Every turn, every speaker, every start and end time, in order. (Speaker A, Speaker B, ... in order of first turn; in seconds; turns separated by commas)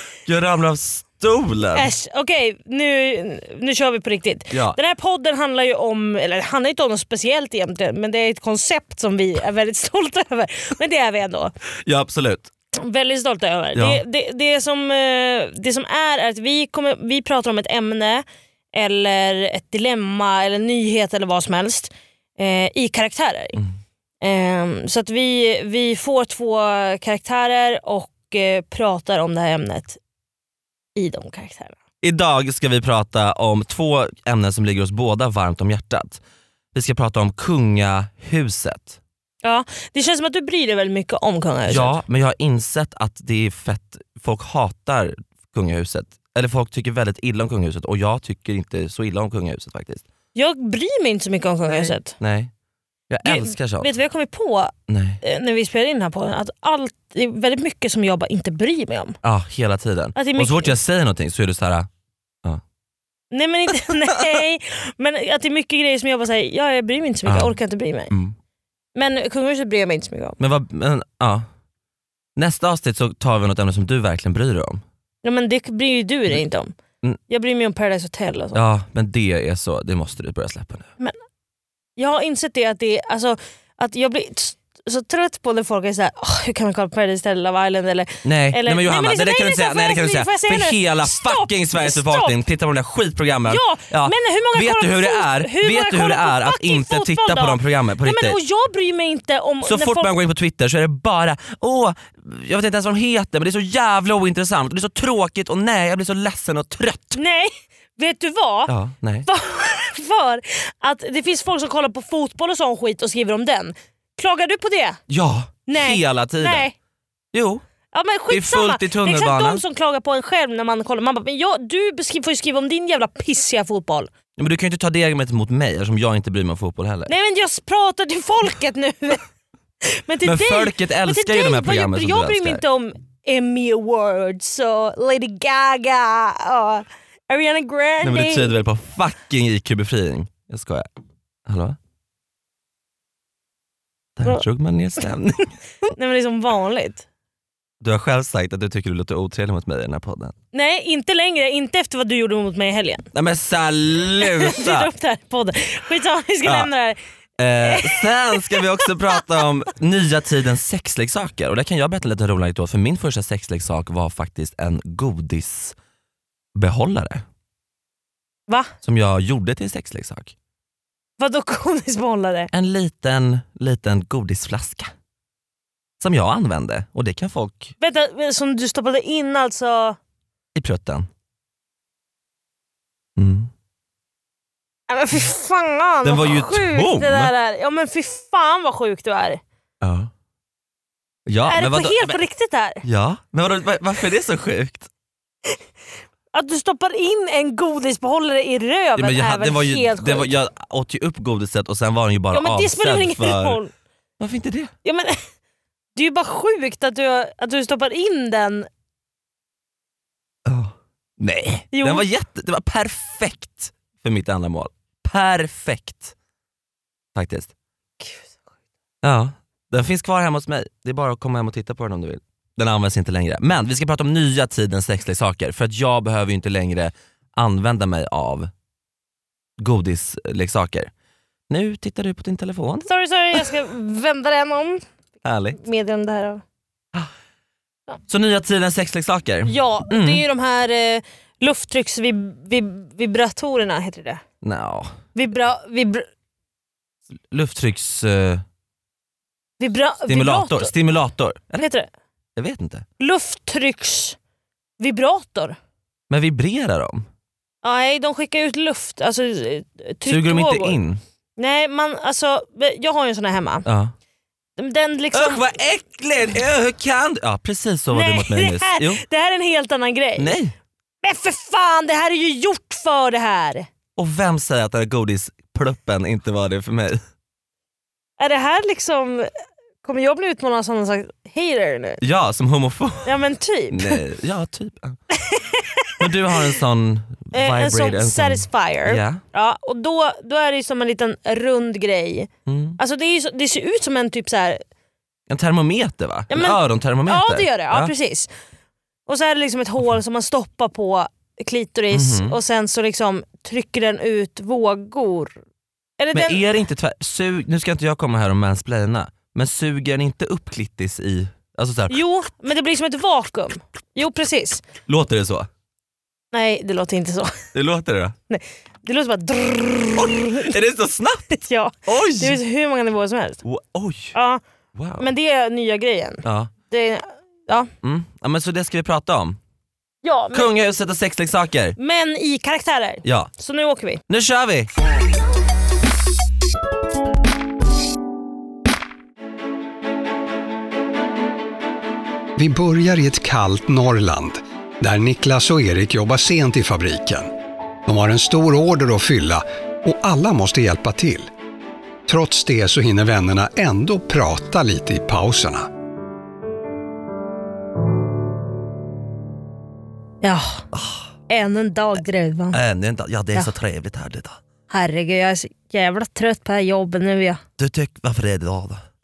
Speaker A: 0.2-1.9, Speaker B: 1.8-11.5, Speaker A: 4.5-4.8, Speaker A: 11.8-12.5, Speaker B: 12.8-23.6, Speaker A: 13.8-14.0, Speaker B: 24.2-30.0, Speaker B: 31.0-31.8, Speaker A: 32.0-36.2, Speaker A: 36.7-39.0, Speaker B: 39.4-42.0, Speaker A: 41.7-50.0, Speaker B: 50.4-52.1, Speaker A: 51.7-52.5, Speaker A: 53.1-53.9, Speaker B: 53.2-59.2, Speaker A: 54.9-55.2, Speaker A: 59.2-61.9, Speaker B: 60.2-60.7, Speaker B: 63.3-68.1, Speaker A: 67.3-67.6, Speaker A: 68.1-68.3, Speaker B: 69.0-70.4, Speaker A: 70.4-71.5, Speaker A: 72.4-74.8, Speaker B: 75.2-76.7, Speaker B: 77.3-78.6, Speaker A: 78.5-80.9, Speaker B: 82.0-92.4, Speaker A: 88.2-98.4, Speaker B: 93.5-100.1, Speaker A: 99.7-107.2, Speaker B: 107.2-108.7, Speaker A: 108.7-109.3, Speaker B: 109.3-115.0, Speaker A: 115.1-116.7, Speaker B: 115.7-116.7, Speaker A: 117.3-117.6, Speaker B: 117.9-124.1, Speaker A: 118.3-119.6, Speaker A: 124.4-127.1, Speaker B: 127.1-129.2, Speaker B: 129.8-138.5, Speaker A: 130.2-132.6, Speaker A: 138.0-140.9, Speaker A: 141.5-141.8, Speaker A: 144.2-145.5, Speaker B: 146.0-147.1, Speaker A: 147.8-150.3, Speaker B: 150.5-153.1, Speaker A: 153.1-154.9, Speaker B: 154.3-157.0, Speaker A: 156.4-156.7, Speaker A: 157.4-165.8, Speaker B: 157.6-158.6, Speaker A: 166.6-167.2, Speaker A: 168.8-170.3, Speaker B: 171.2-172.5, Speaker A: 172.5-174.9, Speaker A: 176.0-177.7, Speaker B: 177.8-180.0, Speaker A: 180.6-181.1, Speaker A: 183.2-183.5, Speaker B: 184.9-189.4, Speaker A: 186.0-187.3, Speaker A: 189.8-190.1, Speaker A: 191.3-192.2, Speaker B: 191.5-192.8, Speaker A: 192.8-194.9, Speaker B: 196.3-200.3, Speaker A: 199.0-203.6, Speaker B: 202.3-203.7, Speaker A: 204.2-204.7, Speaker B: 204.8-205.2, Speaker B: 206.0-208.7, Speaker A: 210.5-216.1, Speaker B: 211.7-212.1, Speaker A: 217.2-217.5, Speaker B: 218.0-218.4, Speaker A: 219.0-228.5, Speaker A: 229.6-230.9, Speaker A: 231.5-232.9, Speaker B: 232.9-234.8, Speaker A: 235.2-235.6, Speaker B: 235.6-236.4, Speaker A: 238.1-240.2, Speaker B: 239.5-244.2, Speaker A: 244.4-244.9, Speaker B: 245.2-246.1, Speaker A: 247.3-248.4, Speaker B: 249.6-250.7, Speaker A: 250.1-251.7, Speaker B: 251.6-251.9, Speaker A: 252.4-252.8, Speaker B: 253.0-254.2, Speaker B: 254.8-255.6, Speaker A: 256.1-257.1, Speaker B: 257.6-260.8, Speaker A: 260.1-261.0, Speaker B: 261.4-263.7, Speaker A: 263.7-263.9, Speaker B: 264.6-265.4, Speaker A: 265.1-269.0, Speaker B: 267.9-270.4, Speaker A: 270.2-270.5, Speaker B: 271.0-273.7, Speaker A: 274.0-277.0, Speaker B: 278.2-279.3, Speaker B: 279.8-282.0, Speaker A: 282.0-283.1, Speaker B: 283.1-284.0, Speaker A: 283.7-285.0, Speaker B: 285.1-286.1, Speaker A: 286.0-289.2, Speaker B: 287.3-294.6, Speaker A: 292.5-292.8, Speaker A: 295.3-297.9, Speaker B: 296.3-298.3, Speaker B: 299.1-305.3, Speaker A: 301.9-302.4, Speaker B: 306.0-306.4, Speaker A: 306.1-312.0, Speaker B: 311.9-314.6, Speaker A: 314.9-315.5, Speaker B: 316.3-317.3, Speaker A: 317.5-318.1, Speaker B: 318.3-320.5, Speaker A: 320.0-321.3, Speaker B: 321.3-323.4, Speaker A: 321.9-322.4, Speaker A: 323.4-324.1, Speaker B: 324.1-324.4, Speaker A: 324.8-325.1, Speaker B: 325.0-327.7, Speaker A: 326.2-326.5, Speaker A: 327.8-329.4, Speaker B: 330.0-330.5, Speaker A: 330.3-331.8, Speaker B: 331.8-334.0, Speaker A: 333.1-333.3, Speaker A: 334.1-334.7, Speaker C: 342.4-347.3, Speaker C: 347.9-351.3, Speaker C: 352.1-355.7, Speaker B: 360.2-360.6, Speaker A: 360.7-361.1, Speaker B: 361.3-362.6, Speaker A: 362.5-364.4, Speaker B: 364.7-367.4, Speaker A: 367.6-368.8